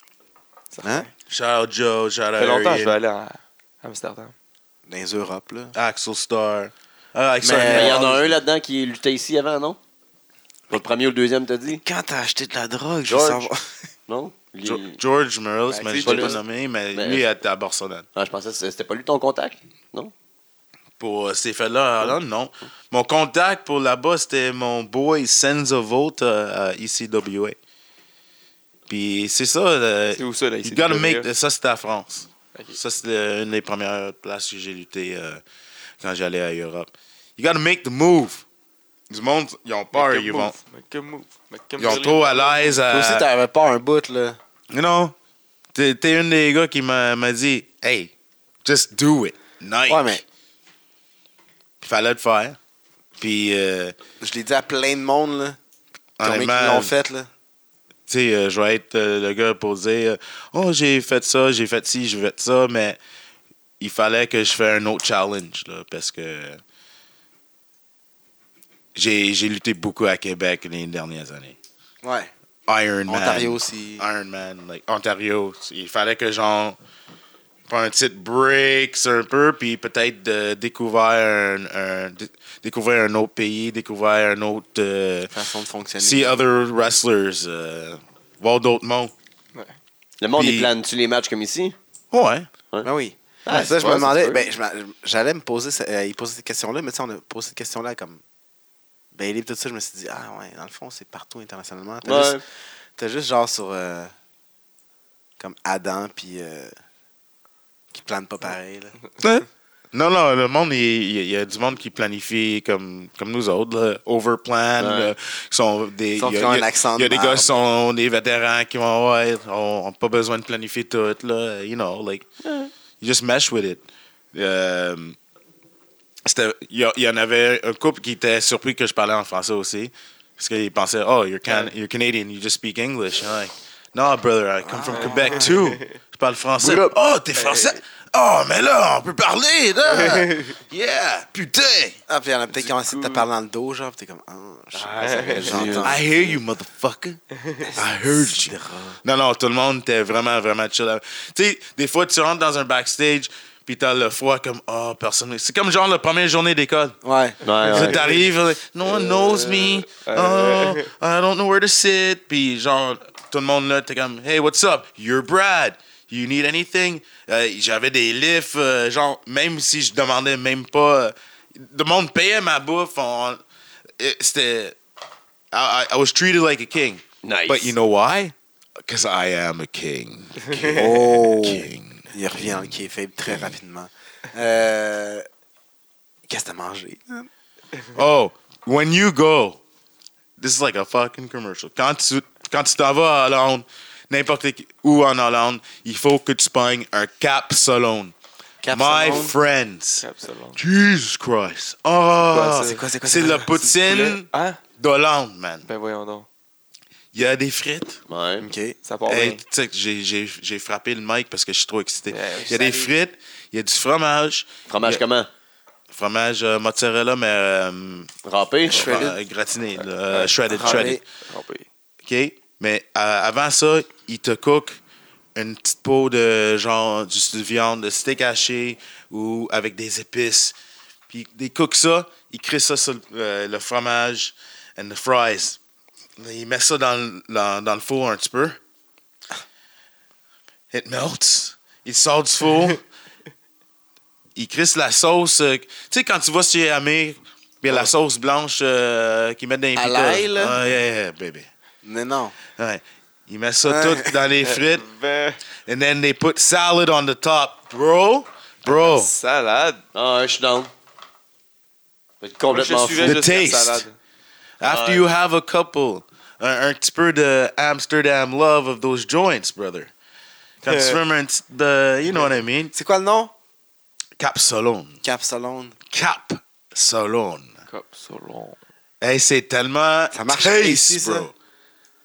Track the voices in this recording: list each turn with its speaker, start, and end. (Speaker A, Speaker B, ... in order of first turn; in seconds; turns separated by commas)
Speaker A: 0.7-1.1, Speaker B: 1.3-3.0, Speaker A: 2.4-4.3, Speaker C: 4.9-5.7, Speaker B: 5.7-8.3, Speaker C: 7.4-8.2, Speaker D: 7.6-9.8, Speaker D: 10.7-11.8, Speaker C: 11.7-13.7, Speaker D: 13.1-13.5, Speaker D: 14.1-15.0, Speaker B: 14.6-18.1, Speaker A: 15.7-16.4, Speaker D: 16.1-16.4, Speaker D: 16.9-17.2, Speaker D: 18.1-20.1, Speaker B: 21.0-27.6, Speaker B: 28.9-35.4, Speaker A: 30.2-31.3, Speaker B: 36.0-38.4, Speaker B: 39.1-40.5, Speaker A: 39.9-42.8, Speaker B: 41.8-43.3, Speaker C: 42.9-44.4, Speaker B: 44.7-45.1, Speaker B: 45.7-48.1, Speaker B: 48.6-50.2, Speaker C: 49.9-50.2, Speaker B: 51.8-52.6, Speaker B: 53.2-53.9, Speaker C: 54.2-55.6, Speaker B: 56.2-56.9, Speaker C: 56.2-57.3, Speaker B: 58.1-63.0, Speaker B: 63.8-66.6, Speaker B: 68.9-71.6, Speaker C: 72.0-72.3, Speaker B: 72.7-76.8, Speaker C: 73.1-74.0, Speaker B: 77.7-85.3, Speaker C: 85.3-86.4, Speaker B: 86.0-89.1, Speaker D: 90.2-91.8, Speaker B: 90.3-90.7, Speaker B: 92.1-92.5, Speaker C: 92.8-98.2, Speaker D: 93.4-94.5, Speaker C: 99.1-102.4, Speaker D: 102.0-102.4, Speaker C: 103.0-104.1, Speaker C: 105.4-106.7, Speaker C: 107.9-109.0, Speaker B: 109.2-122.3, Speaker D: 114.8-115.1, Speaker C: 116.2-117.5, Speaker D: 122.4-122.7, Speaker B: 123.0-125.2, Speaker B: 126.2-142.0, Speaker C: 134.6-135.6, Speaker A: 134.9-135.9, Speaker C: 136.6-136.9, Speaker A: 137.3-137.8, Speaker A: 139.9-140.6, Speaker C: 142.1-146.0, Speaker A: 142.6-143.2, Speaker D: 144.7-146.0, Speaker A: 145.0-145.6, Speaker B: 145.8-147.2, Speaker A: 147.3-147.7, Speaker C: 147.8-149.0, Speaker B: 147.8-157.0, Speaker C: 157.0-157.4, Speaker D: 157.4-158.0, Speaker B: 157.6-173.4, Speaker A: 157.6-158.2, Speaker A: 159.1-160.9, Speaker B: 174.0-174.8, Speaker B: 175.5-182.7, Speaker D: 177.2-177.7, Speaker A: 180.4-180.9, Speaker C: 180.6-185.2, Speaker C: 186.3-187.3, Speaker B: 187.9-189.6, Speaker B: 190.4-198.1, Speaker C: 198.6-199.3, Speaker B: 198.7-200.0, Speaker A: 200.0-200.6, Speaker B: 200.6-204.3, Speaker A: 202.2-202.8, Speaker C: 202.6-203.6, Speaker A: 203.7-204.6, Speaker B: 204.8-205.6, Speaker A: 205.6-206.2, Speaker B: 207.1-208.0, Speaker D: 208.1-208.5, Speaker C: 208.4-208.8, Speaker A: 208.8-209.4, Speaker B: 209.1-215.0, Speaker A: 212.1-212.9, Speaker D: 214.7-215.3, Speaker B: 215.9-218.1, Speaker D: 218.2-219.2, Speaker A: 218.7-219.1, Speaker B: 218.7-221.0, Speaker A: 219.8-221.7, Speaker C: 220.5-221.0, Speaker B: 222.0-224.8, Speaker B: 225.3-230.5, Speaker B: 231.1-235.6, Speaker B: 236.2-238.6, Speaker B: 240.7-242.8, Speaker B: 244.3-251.5, Speaker C: 249.8-250.6, Speaker C: 251.8-252.3, Speaker B: 252.6-254.8, Speaker C: 253.6-254.1, Speaker A: 254.4-255.4, Speaker B: 255.7-259.1, Speaker A: 258.6-259.8, Speaker D: 259.9-260.7, Speaker D: 262.2-263.2, Speaker A: 262.5-263.9, Speaker B: 263.0-263.8, Speaker B: 264.6-269.9, Speaker D: 264.6-265.1, Speaker B: 270.6-272.7, Speaker A: 270.6-271.0, Speaker C: 272.7-273.3, Speaker B: 274.2-275.0, Speaker C: 275.0-275.8, Speaker B: 275.9-277.5, Speaker A: 277.7-278.6, Speaker B: 279.0-281.3, Speaker C: 280.1-281.3